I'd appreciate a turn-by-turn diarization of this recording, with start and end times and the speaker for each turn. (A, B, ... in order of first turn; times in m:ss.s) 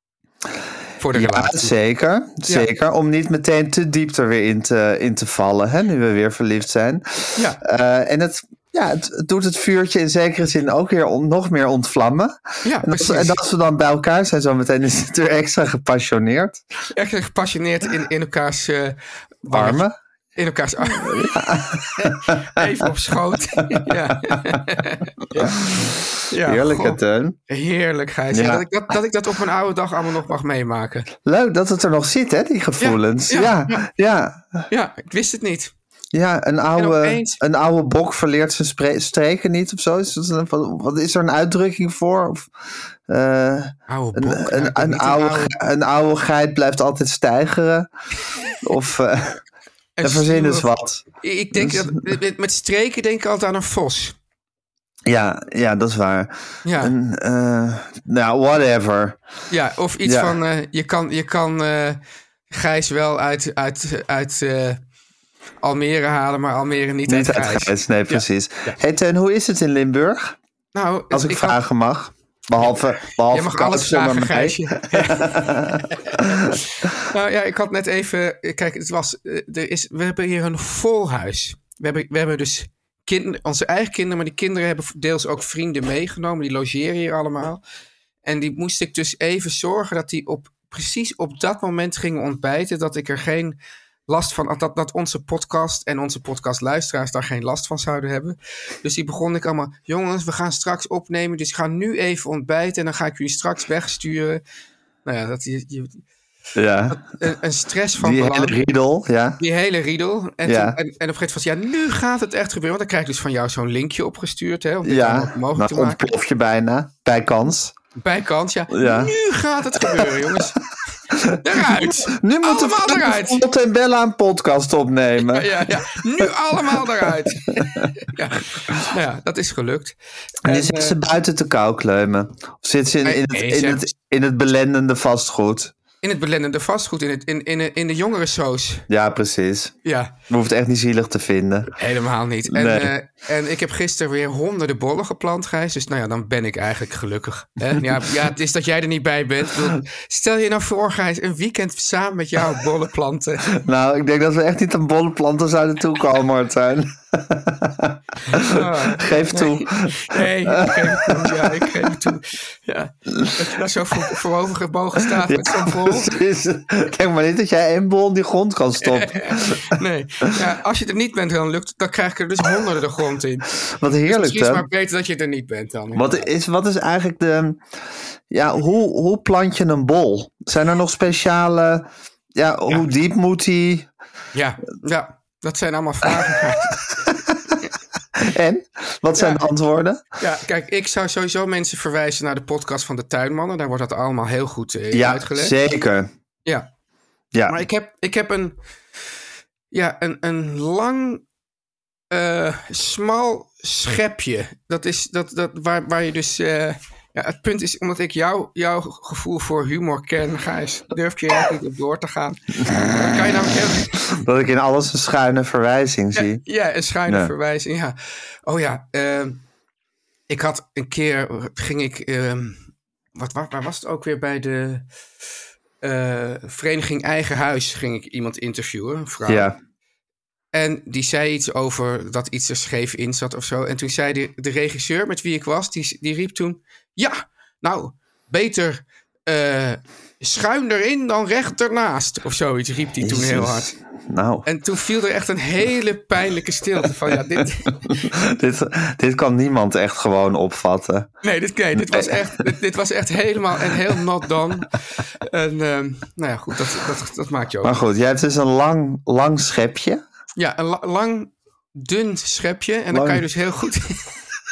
0:01.0-0:01.7 A
0:01.1-0:16.6 B
0:12.6-0:13.4 A
0:16.9-0:19.8 A
0:19.5-0:19.9 B
0:20.4-0:21.3 A
0:20.9-0:22.3 B
0:21.9-0:27.0 A
0:23.7-0:24.3 B
0:25.3-0:27.4 B
0:27.5-0:31.1 A
0:28.3-0:28.6 B
0:31.2-0:34.7 B
0:32.8-0:33.8 A
0:34.7-0:35.7 A
0:36.1-0:42.5 B
0:36.8-0:37.4 A
0:43.1-0:47.9 B
0:43.9-0:45.5 A
0:48.6-0:49.4 B
0:50.0-0:50.7 A
0:50.0-0:51.0 B
0:51.2-0:54.2 A
0:51.5-0:52.2 B
0:55.0-0:59.2 B
0:56.6-0:56.9 A
0:59.5-1:02.0 A
1:00.0-1:00.4 B
1:02.5-1:04.8 A
1:05.6-1:08.2 A
1:07.0-1:10.4 B
1:10.7-1:11.6 A
1:11.1-1:16.5 B
1:13.3-1:27.6 A
1:28.2-1:33.6 A
1:34.1-1:44.4 A
1:45.0-1:46.0 A
1:46.5-1:47.0 B
1:46.9-1:48.6 A
1:48.0-1:49.4 B
1:49.4-1:56.1 A
1:50.4-1:50.8 B
1:54.8-1:57.7 B
1:58.0-2:00.6 A
1:58.7-1:59.1 B
1:59.8-2:00.5 B
2:01.1-2:07.9 B
2:01.4-2:03.4 A
2:05.2-2:11.0 A
2:10.4-2:15.7 B
2:13.0-2:13.8 A
2:16.0-2:18.8 A
2:18.9-2:19.7 B
2:19.8-2:20.1 A
2:20.3-2:21.7 B
2:21.8-2:33.5 A
2:22.4-2:22.9 B
2:33.5-2:42.0 B
2:38.3-2:46.2 A
2:43.1-2:43.4 B
2:45.2-2:49.7 B
2:48.8-2:53.5 A
2:53.7-2:54.6 B
2:54.1-2:56.2 A
2:55.9-2:57.6 B
2:58.3-3:03.9 B
3:04.3-3:06.9 A
3:08.2-3:10.0 B
3:09.2-3:09.5 A
3:10.2-3:15.5 A
3:14.9-3:16.1 B
3:17.3-3:17.6 B
3:17.5-3:18.6 A
3:19.7-3:21.2 A
3:22.1-3:34.0 A
3:32.7-3:33.0 B
3:34.0-3:36.4 B
3:36.1-3:39.4 A
3:37.0-3:37.3 B
3:40.3-3:42.6 A
3:43.1-3:44.9 A
3:45.8-3:49.5 A
3:49.3-3:49.6 B
3:50.5-4:03.7 A
4:03.0-4:04.5 B
4:04.4-4:08.0 A
4:07.9-4:11.1 B
4:11.2-4:17.8 A
4:11.7-4:12.5 B
4:13.7-4:14.0 B
4:17.6-4:20.0 B
4:20.4-4:24.1 A
4:22.9-4:23.2 B